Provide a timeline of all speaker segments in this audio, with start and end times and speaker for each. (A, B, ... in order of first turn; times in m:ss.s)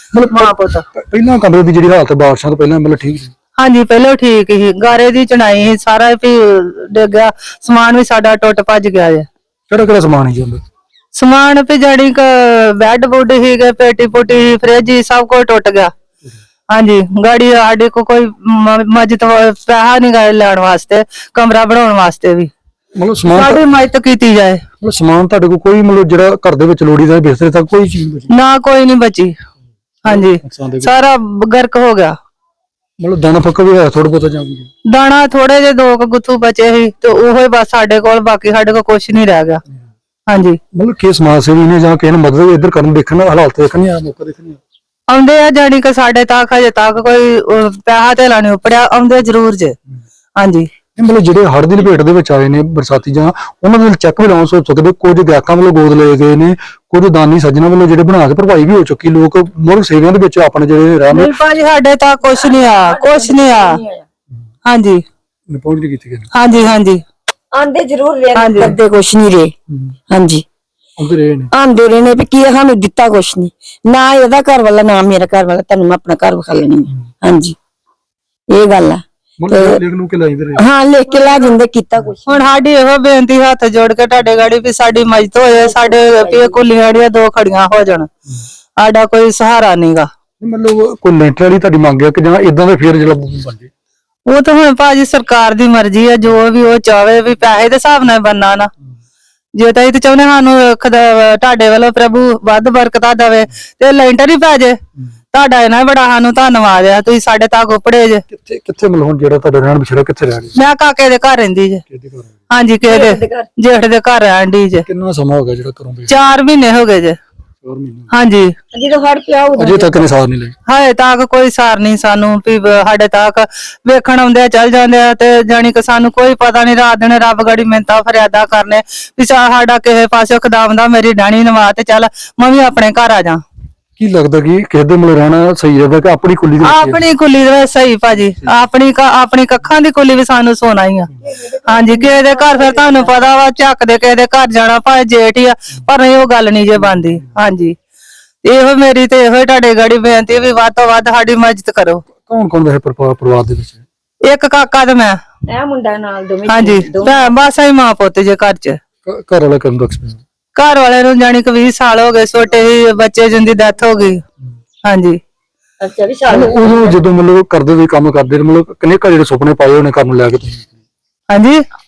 0:00.1-0:03.3 A
0:00.3-0:00.8 B
0:03.6-0:09.3 B
0:09.7-0:10.6 A
0:11.1-0:15.9 B
0:16.7-0:22.5 B
0:23.0-0:23.6 A
0:23.3-0:24.6 B
0:24.8-0:28.3 A
0:28.3-0:29.4 B
0:30.0-0:30.9 A
0:30.0-0:32.2 B
0:33.0-0:34.7 A
0:34.9-0:39.6 B
0:40.3-0:40.6 B
0:40.7-0:44.6 A
0:45.1-0:49.8 B
0:50.4-0:50.7 B
0:51.0-1:01.3 A
1:01.1-1:03.8 B
1:02.3-1:04.0 C
1:04.6-1:05.0 B
1:05.5-1:06.3 A
1:06.3-1:07.0 B
1:07.5-1:09.5 C
1:08.4-1:08.8 B
1:09.7-1:10.0 A
1:10.1-1:10.4 C
1:11.0-1:11.5 A
1:11.5-1:17.6 C
1:18.5-1:19.8 C
1:19.4-1:20.7 A
1:20.6-1:22.4 C
1:22.2-1:28.1 B
1:25.7-1:26.6 C
1:28.8-1:30.1 B
1:30.4-1:33.7 A
1:34.3-1:38.7 B
1:39.6-1:44.8 B
1:45.3-1:48.2 B
1:48.3-1:50.6 A
1:50.6-1:51.8 B
1:51.9-1:52.4 A
1:52.5-1:54.8 B
1:52.8-1:53.5 C
1:54.8-1:56.1 A
1:56.1-1:57.2 B
1:57.6-1:58.1 A
1:58.1-1:58.5 B
1:58.7-2:00.1 C
1:59.6-2:00.6 A
2:00.7-2:13.4 B
2:14.0-2:17.0 A
2:16.6-2:27.8 B
2:21.5-2:23.1 C
2:28.4-2:32.0 B
2:32.2-2:33.8 A
2:34.2-2:35.2 B
2:35.5-2:37.3 C
2:36.5-2:38.8 B
2:39.0-2:40.2 A
2:40.6-2:44.2 B
2:44.8-2:45.2 B
2:45.8-2:47.0 C
2:46.3-2:50.8 A
2:51.3-2:51.6 B